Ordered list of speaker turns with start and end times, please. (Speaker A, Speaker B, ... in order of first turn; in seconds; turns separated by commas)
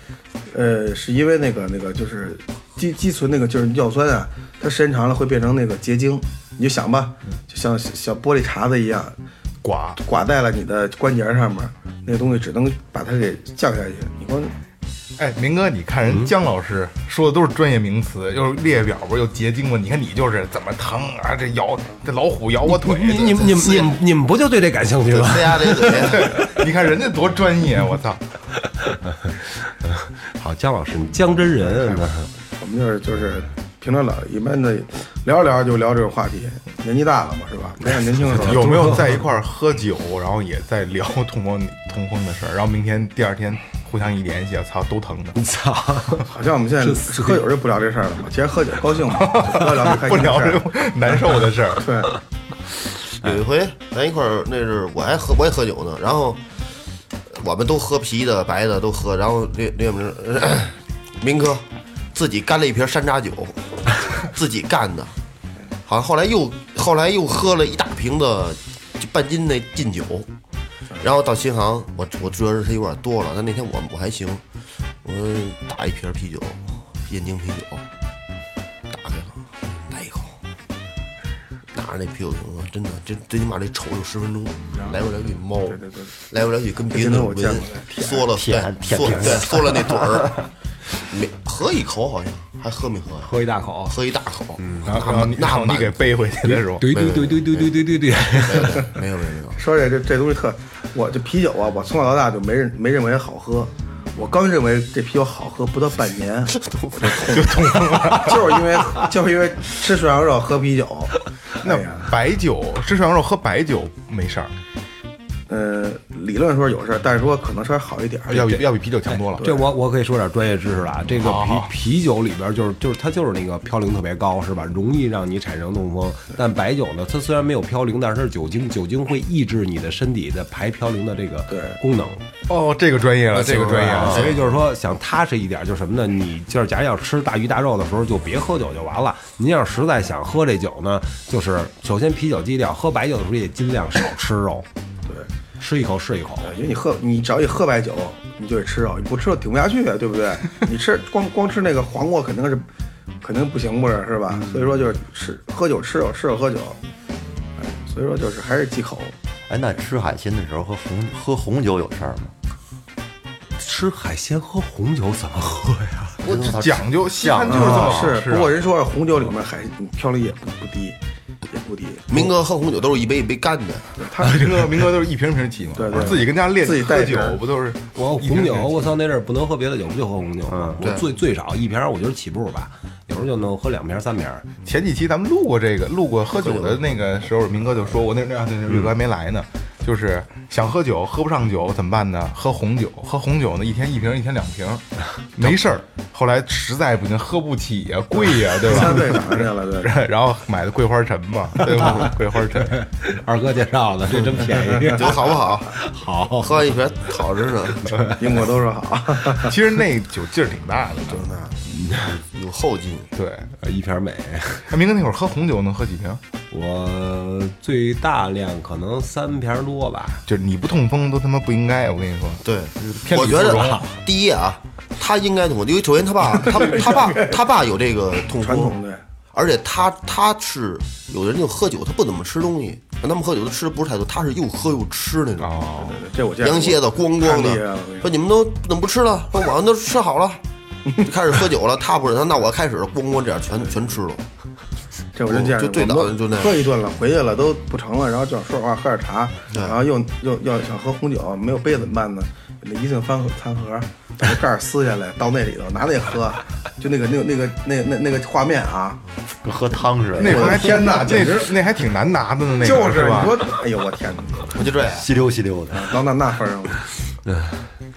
Speaker A: 0.5-9.2, Speaker B: 9.6-10.0, Speaker A: 10.0-14.6, Speaker B: 15.2-23.4, Speaker C: 22.6-26.5, Speaker D: 23.1-23.9, Speaker D: 25.1-26.4, Speaker B: 26.0-28.2, Speaker C: 28.9-32.3, Speaker A: 32.6-39.0, Speaker C: 38.2-39.1, Speaker B: 38.3-45.4, Speaker C: 45.4-46.3, Speaker A: 46.3-50.7, Speaker C: 46.8-47.5, Speaker B: 49.1-52.0, Speaker A: 51.8-52.1, Speaker D: 53.2-56.4, Speaker D: 57.3-65.2, Speaker D: 65.9-70.3, Speaker D: 71.0-74.4, Speaker D: 75.0-77.9, Speaker D: 78.9-80.4, Speaker D: 81.7-90.4, Speaker A: 85.7-86.1, Speaker A: 86.9-88.3, Speaker E: 88.3-90.4, Speaker D: 91.0-93.3, Speaker C: 93.2-94.0, Speaker D: 93.9-96.2, Speaker C: 94.6-94.9, Speaker B: 94.9-96.9, Speaker C: 96.4-99.0, Speaker D: 96.9-99.6, Speaker A: 99.6-107.5, Speaker D: 106.6-107.4, Speaker B: 107.2-108.6, Speaker A: 108.0-112.1, Speaker B: 111.6-114.5, Speaker A: 115.5-118.5, Speaker B: 118.3-119.5, Speaker C: 118.5-132.2, Speaker A: 119.4-119.7, Speaker B: 121.1-121.7, Speaker A: 131.5-131.8, Speaker B: 132.5-134.3, Speaker D: 133.3-134.4, Speaker C: 133.7-144.7, Speaker C: 145.6-146.6, Speaker A: 146.4-152.7, Speaker A: 153.2-156.8, Speaker C: 154.3-154.8, Speaker A: 157.6-159.2, Speaker E: 159.5-162.3, Speaker C: 163.6-166.2, Speaker E: 166.2-168.2, Speaker B: 166.3-168.6, Speaker A: 167.5-172.2, Speaker D: 172.1-173.9, Speaker A: 174.0-174.5, Speaker B: 174.2-178.8, Speaker A: 175.8-177.4, Speaker C: 177.9-184.5, Speaker B: 184.6-202.8, Speaker D: 186.4-187.0, Speaker A: 198.6-199.9, Speaker C: 201.6-206.6, Speaker D: 204.8-205.8, Speaker D: 206.4-208.0, Speaker C: 207.9-208.2, Speaker A: 208.2-209.6, Speaker B: 209.4-211.4, Speaker D: 211.1-213.1, Speaker C: 211.7-212.2, Speaker B: 213.2-213.5, Speaker C: 213.6-214.7, Speaker B: 214.7-216.2, Speaker C: 216.5-220.2, Speaker B: 220.3-223.9, Speaker D: 222.4-228.8, Speaker A: 226.4-227.4, Speaker A: 228.3-229.0, Speaker D: 229.3-235.6, Speaker B: 235.4-236.1, Speaker A: 235.8-238.1, Speaker D: 236.4-240.4, Speaker D: 241.0-244.2, Speaker A: 245.2-259.0, Speaker D: 245.3-246.7, Speaker D: 249.5-249.8, Speaker E: 259.4-260.9, Speaker B: 260.2-263.4, Speaker A: 260.2-261.6, Speaker A: 262.6-264.6, Speaker D: 264.6-265.1, Speaker E: 264.7-266.0, Speaker A: 265.7-266.8, Speaker C: 267.3-267.6